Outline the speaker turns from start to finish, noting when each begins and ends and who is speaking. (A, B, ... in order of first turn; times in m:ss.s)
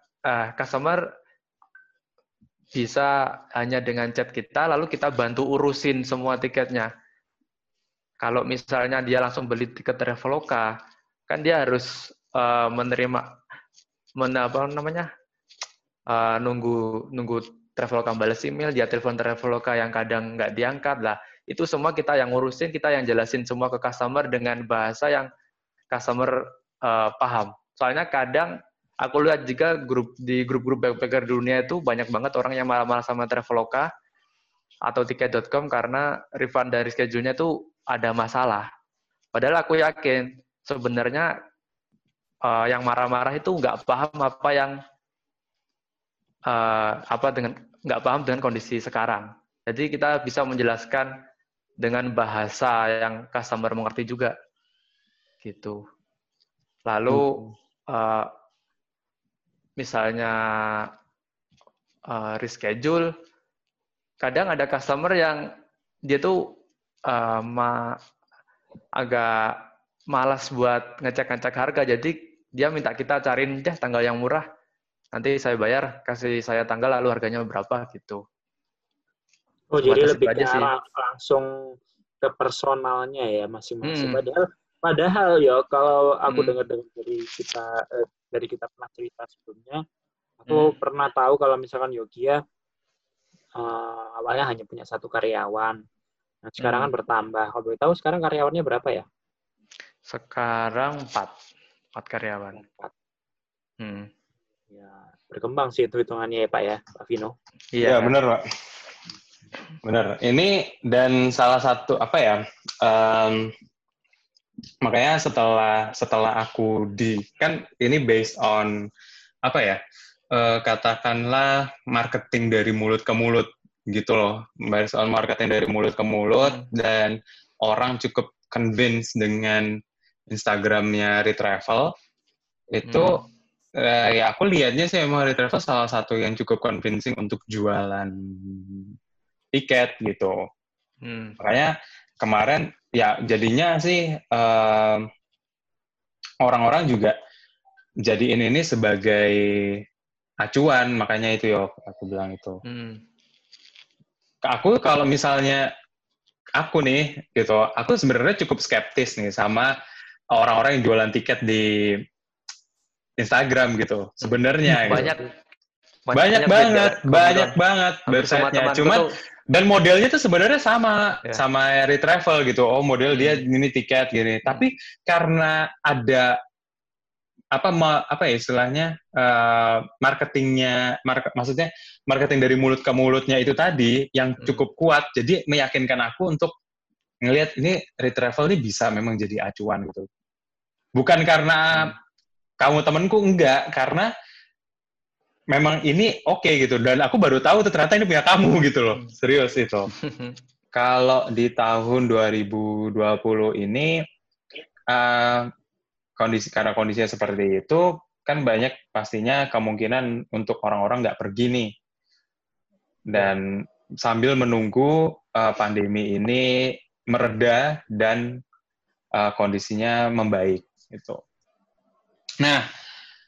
0:00.3-0:01.0 A
0:02.8-0:06.9 A
0:08.2-0:10.7 A
0:11.3-0:13.2 A
0:14.2-0:15.1 A
0:16.1-0:25.3 A
0:25.9-0:33.9 A
0:34.9-0:38.6 A
0:39.3-0:41.3 A
0:42.4-0:44.8 A
0:46.5-0:51.1 A
0:51.8-0:54.3 A
0:55.4-0:55.8 A
0:56.8-0:58.3 A
0:57.1-0:57.5 B
0:59.8-1:00.9 A
1:02.1-1:03.1 A
1:04.2-1:05.4 A
1:06.1-1:06.4 A
1:07.1-1:07.8 A
1:09.0-1:09.6 A
1:10.1-1:14.4 A
1:15.1-1:18.2 A
1:19.7-1:29.8 C
1:19.8-1:20.7 A
1:23.8-1:24.2 A
1:26.3-1:26.6 A
1:30.4-1:32.4 C
1:30.5-1:30.7 A
1:33.6-1:35.8 C
1:36.4-1:39.0 C
1:36.6-1:36.9 A
1:40.1-1:41.3 A
1:41.9-1:42.6 A
1:42.6-1:42.9 C
1:43.8-1:44.1 A
1:44.7-1:47.3 C
1:47.7-1:48.1 A
1:47.8-1:48.4 B
1:49.8-1:53.5 B
1:54.8-1:58.7 B
1:59.4-1:59.8 B
2:00.3-2:09.8 B
2:06.4-2:06.7 A
2:10.3-2:11.9 B
2:12.7-2:13.2 B
2:12.8-2:13.2 A
2:13.8-2:18.9 B
2:19.5-2:20.4 B
2:21.0-2:21.4 A
2:21.4-2:25.0 B
2:26.4-2:27.2 B
2:28.0-2:29.8 B
2:30.4-2:32.6 B
2:32.6-2:33.0 A
2:34.4-2:35.7 B
2:36.6-2:39.7 B
2:40.3-2:42.0 B
2:43.2-2:45.1 B
2:44.2-2:45.3 A
2:46.1-2:49.0 A
2:46.1-2:56.4 B
2:53.1-2:53.4 A
2:57.5-3:06.5 B
3:07.2-3:10.1 B
3:11.0-3:11.9 B
3:12.6-3:14.1 B
3:15.5-3:19.9 B
3:19.9-3:20.4 A
3:20.7-3:24.0 B
3:24.9-3:25.5 B
3:26.2-3:31.7 B
3:33.1-3:38.4 B
3:39.2-3:41.2 B